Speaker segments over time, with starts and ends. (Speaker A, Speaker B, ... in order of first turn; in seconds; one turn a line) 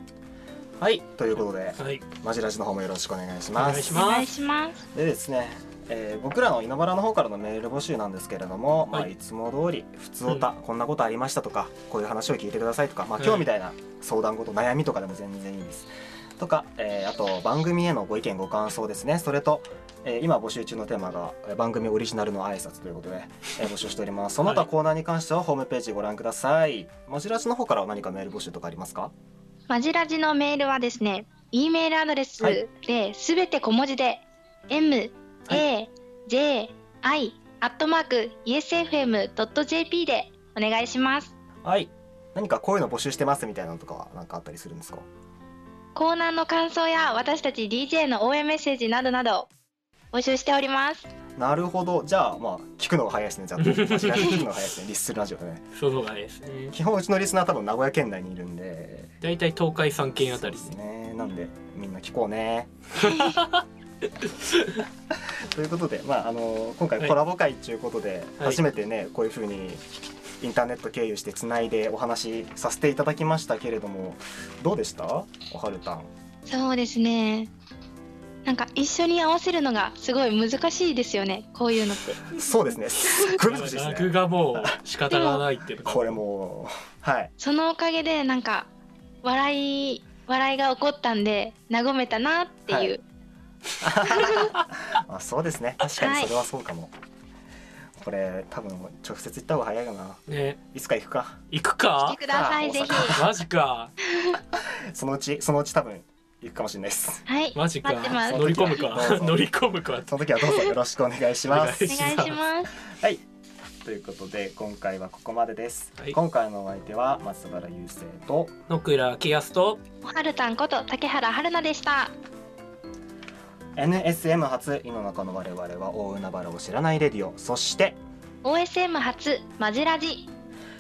Speaker A: 0.9-4.0
Speaker B: 1.8-2.0
Speaker B: 3.5-4.3
Speaker C: 3.9-4.8
Speaker A: 4.9-29.1
Speaker B: 13.2-13.5
Speaker B: 24.4-24.7
Speaker C: 29.7-41.3
Speaker A: 41.6-45.0
Speaker C: 45.9-49.5
Speaker C: 50.1-51.1
Speaker A: 51.4-55.6
Speaker B: 53.6-54.5
Speaker B: 55.7-56.8
Speaker A: 56.7-59.1
Speaker B: 59.2-60.7
Speaker A: 60.2-62.7
Speaker B: 63.0-63.6
Speaker B: 64.2-64.8
Speaker A: 65.4-69.8
Speaker A: 70.4-76.1
Speaker C: 76.5-77.5
Speaker C: 78.4-82.3
Speaker A: 82.3-84.8
Speaker C: 83.0-83.4
Speaker B: 83.3-86.2
Speaker C: 85.1-85.5
Speaker A: 85.8-87.3
Speaker C: 87.4-88.7
Speaker C: 89.2-93.0
Speaker A: 92.7-93.0
Speaker A: 93.8-96.9
Speaker C: 94.0-94.6
Speaker C: 95.8-96.3
Speaker A: 98.0-101.4
Speaker B: 100.3-100.6
Speaker B: 101.5-102.2
Speaker C: 102.0-103.2
Speaker A: 102.3-103.3
Speaker B: 102.9-103.9
Speaker C: 104.0-104.4
Speaker A: 104.9-107.2
Speaker C: 107.2-108.9
Speaker B: 107.5-110.1
Speaker A: 108.2-109.4
Speaker A: 110.0-112.0
Speaker C: 110.4-110.7
Speaker B: 111.4-112.4
Speaker C: 111.8-112.7
Speaker A: 112.8-113.2
Speaker A: 113.8-118.5
Speaker B: 118.7-119.8
Speaker C: 120.0-122.1
Speaker A: 123.8-128.0
Speaker C: 128.4-130.3